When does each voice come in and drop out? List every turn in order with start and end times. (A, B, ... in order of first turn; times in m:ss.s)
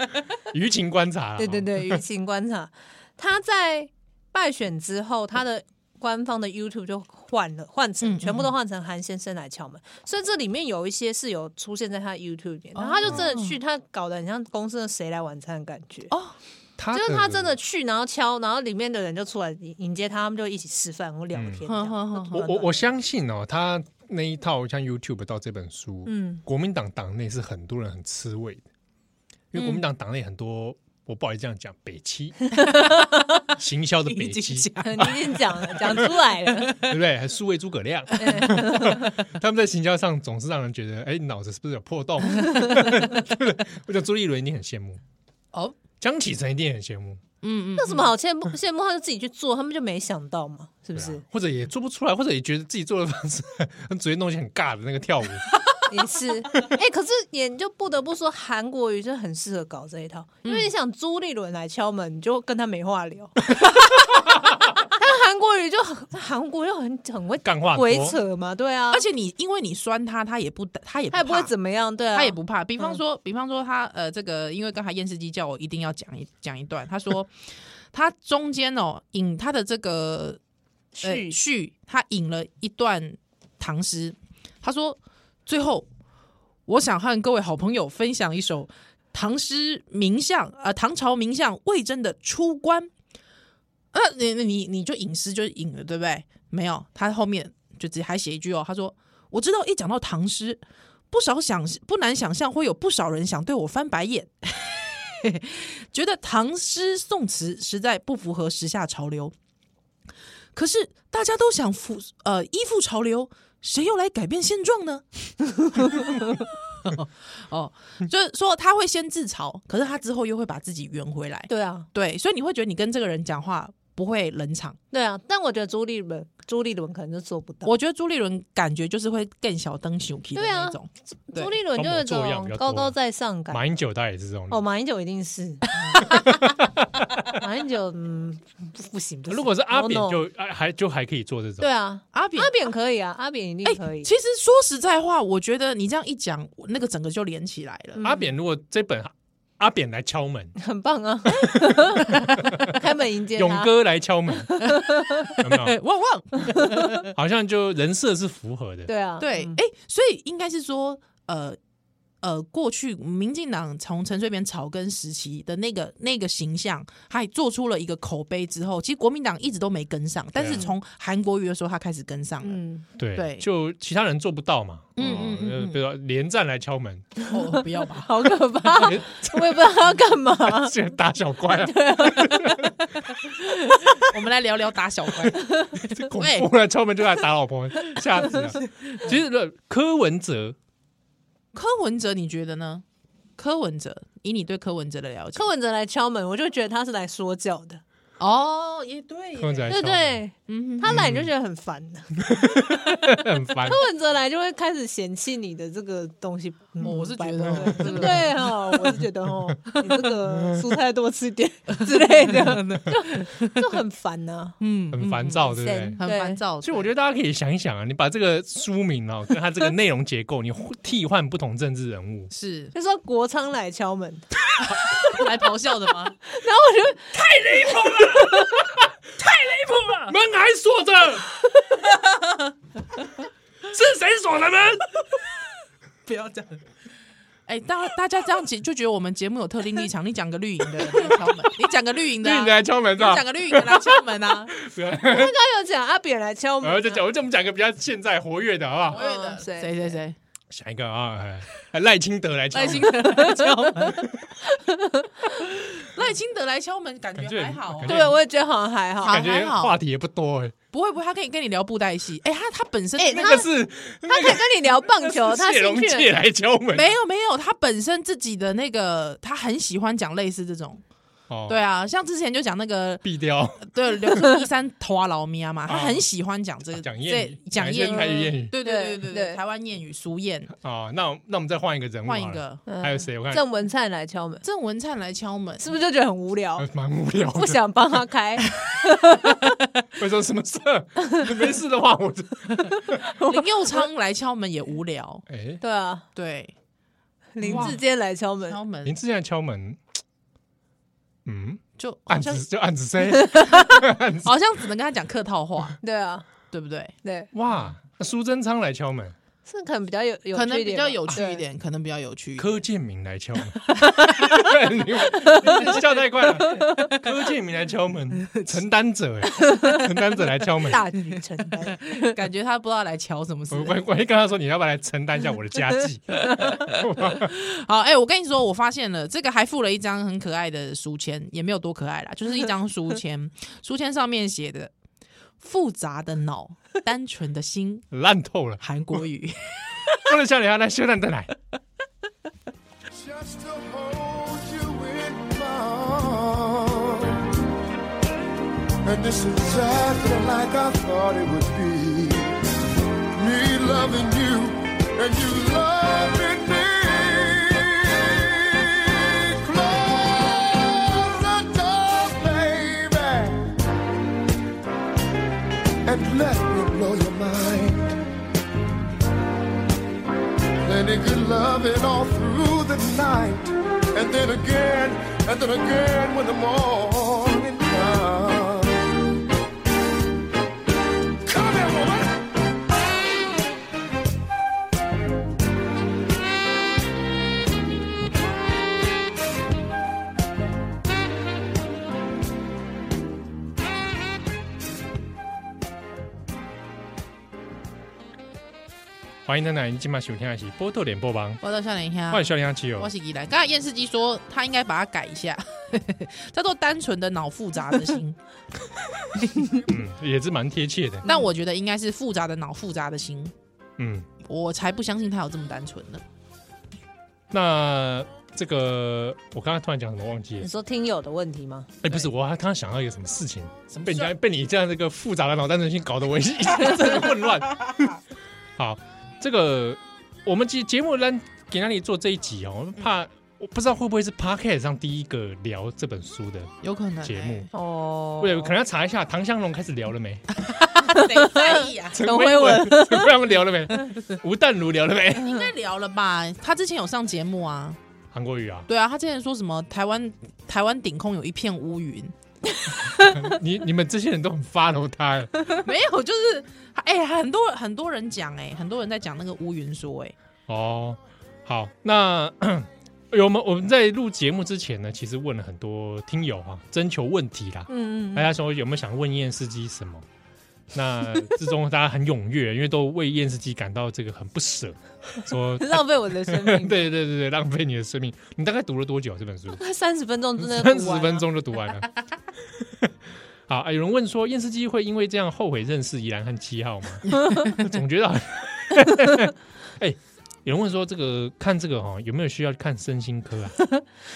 0:00.4-0:02.0 A
0:01.4-0:16.1 B
0:08.0-0:08.5 C
0:12.7-0:13.6 C
0:16.8-0:17.5 A
0:16.9-0:22.8 B
0:21.3-0:21.6 A
0:21.7-0:22.4 C
0:22.3-0:28.6 A
0:26.0-0:26.4 B
0:29.5-0:32.5 A
0:29.6-0:29.8 C
0:32.7-0:33.1 C
0:33.5-0:35.3 A
0:34.0-0:37.0 C
0:34.8-0:36.8 B
0:36.7-0:45.0 A
0:38.2-0:39.1 B
0:46.0-0:47.2 A
0:47.4-0:48.1 C
0:47.8-0:51.2 B
0:50.9-0:55.5 A
0:55.9-1:09.0 B
1:00.4-1:00.7 C
1:07.4-1:08.2 A
1:08.9-1:11.5 C
1:11.1-1:13.0 B
1:12.1-1:17.3 C
1:17.9-1:20.4 C
1:20.9-1:21.4 B
1:21.0-1:25.9 C
1:26.7-1:32.9 C
1:33.9-1:49.3 C
1:50.5-2:04.8 C
2:01.5-2:01.9 B
2:04.9-2:07.7 B
2:07.6-2:11.5 C
2:10.3-2:10.8 B
2:11.3-2:13.6 B
2:11.7-2:12.9 A
2:13.5-2:14.6 A
2:14.5-2:16.5 B
2:16.0-2:17.2 A
2:17.3-2:20.2 B
2:19.3-2:21.7 A
2:21.6-2:24.1 B
2:22.1-2:22.6 C
2:23.6-2:28.0 C
2:28.0-2:28.2 B
2:28.0-2:30.5 A
2:30.6-2:33.7 B
2:32.4-2:32.8 A
2:33.4-2:34.6 A
2:34.5-2:35.3 B
2:34.7-2:37.1 C
2:35.4-2:35.8 A
2:36.6-2:37.0 B
2:37.0-2:38.9 A
2:38.8-2:39.6 B
2:39.2-2:41.6 C
2:42.2-2:52.6 C
2:50.3-2:50.6 A
2:52.4-2:52.8 B
2:53.0-2:57.1 A
2:53.1-2:53.5 C
2:55.0-2:55.8 C
2:57.2-3:00.7 B
2:57.3-2:58.1 C
2:58.7-3:02.8 A
3:01.6-3:02.7 B
3:03.4-3:04.0 B
3:04.0-3:06.5 C
3:05.4-3:05.7 B
3:05.7-3:10.6 A
3:11.5-3:12.8 C
3:13.4-3:15.5 C
3:15.3-3:17.8 B
3:18.2-3:19.8 C
3:19.4-3:20.2 A
3:19.7-3:22.6 B
3:20.5-3:21.0 C
3:20.8-3:21.3 A
3:22.2-3:23.8 A
3:23.6-3:34.6 B
3:26.8-3:29.0 C
3:27.6-3:28.2 A
3:31.8-3:33.8 C
3:34.6-3:36.9 C
3:34.9-3:36.0 A
3:35.5-3:36.4 B
3:36.6-3:42.3 A
3:42.3-3:42.7 C
3:42.7-3:45.2 B
3:44.6-3:46.2 C
3:46.2-3:48.7 B
3:47.1-3:48.8 A
3:50.0-3:51.4 A
3:51.9-3:52.4 C
3:53.7-3:55.0 A
3:56.0-3:56.6 C
3:57.5-4:04.5 C
4:00.9-4:01.4 A
4:02.2-4:05.4 A
4:05.0-4:07.0 B
4:06.6-4:09.0 A
4:08.9-4:10.2 C
4:08.9-4:10.0 B
4:10.5-4:13.0 A
4:12.5-4:14.2 C
4:12.7-4:15.4 B
4:15.3-4:18.1 C
4:17.2-4:18.2 A
4:17.8-4:19.3 B
4:19.0-4:19.8 C
4:19.0-4:20.5 A
4:20.7-4:23.4 C
4:23.0-4:23.5 B
4:23.0-4:26.9 A
4:24.0-4:26.1 B
4:26.7-4:30.8 C
4:31.3-4:31.6 A
4:31.5-4:33.0 C
4:33.0-4:33.7 A
4:33.6-4:40.5 C
4:34.1-4:34.4 B
4:35.7-4:36.0 A
4:36.7-4:38.5 A
4:38.6-4:39.4 B
4:40.6-4:43.4 A
4:42.0-4:42.6 C
4:42.7-4:44.4 B
4:44.4-4:45.6 C
4:45.6-4:46.7 B
4:46.6-4:47.6 A
4:47.3-4:49.5 B
4:50.0-4:53.1 A
4:52.9-4:53.5 B
4:53.2-4:55.2 C
4:55.3-4:55.6 A
4:55.6-4:56.1 B
4:56.1-4:56.5 C
4:57.4-4:58.6 B
4:57.4-4:57.8 C
4:57.4-4:57.8 A
4:58.5-4:58.9 C
4:58.8-4:59.8 A
5:01.2-5:04.3 A
5:01.8-5:02.4 C
5:03.1-5:03.6 B
5:04.2-5:05.8 C
5:05.8-5:06.3 B
5:06.5-5:06.9 C
5:07.0-5:07.3 B
5:07.3-5:09.1 A
5:09.4-5:11.4 B
5:10.3-5:12.6 C
5:12.4-5:20.8 A
5:13.9-5:14.3 B
5:14.0-5:14.2 C
5:15.2-5:15.7 B
5:16.4-5:17.0 B
5:16.5-5:16.9 C
5:19.3-5:19.9 B
5:20.6-5:22.2 B
5:21.9-5:23.8 C
5:23.5-5:27.3 A
5:27.0-5:34.7 C
5:35.4-5:37.8 C
5:37.9-5:38.6 A
5:38.6-5:39.9 C
5:39.9-5:41.3 A
5:42.9-5:47.4 D
5:48.8-5:52.6 D
5:53.1-6:03.7 D
6:05.8-6:08.0 D
6:10.6-6:19.0 D
6:21.2-6:22.4 D
6:39.2-6:41.4 A
6:41.4-6:48.2 C
6:42.1-6:42.9 A
6:49.6-6:51.1 A
6:51.0-6:53.3 C
6:53.8-6:54.1 A
6:54.2-6:56.0 C
6:57.3-7:00.5 A
7:00.4-7:01.7 B
7:01.8-7:08.0 A
7:08.6-7:16.5 A
7:16.6-7:17.4 C
7:17.0-7:17.5 A
7:17.5-7:18.5 B
7:18.2-7:20.3 A
7:20.4-7:22.1 C
7:20.8-7:23.1 B
7:21.9-7:25.4 A
7:25.1-7:27.8 C
7:28.1-7:28.7 A
7:28.7-7:32.1 C
7:32.6-7:33.2 B
7:32.8-7:35.5 A
7:35.6-7:40.1 C
7:40.5-7:50.0 A
7:47.7-7:48.3 B
7:50.7-7:59.6 A
7:55.6-7:56.8 B
7:59.5-8:01.3 B
8:00.4-8:02.0 A
8:02.6-8:02.9 A
8:03.5-8:13.6 A
8:07.2-8:07.5 B
8:13.6-8:13.8 B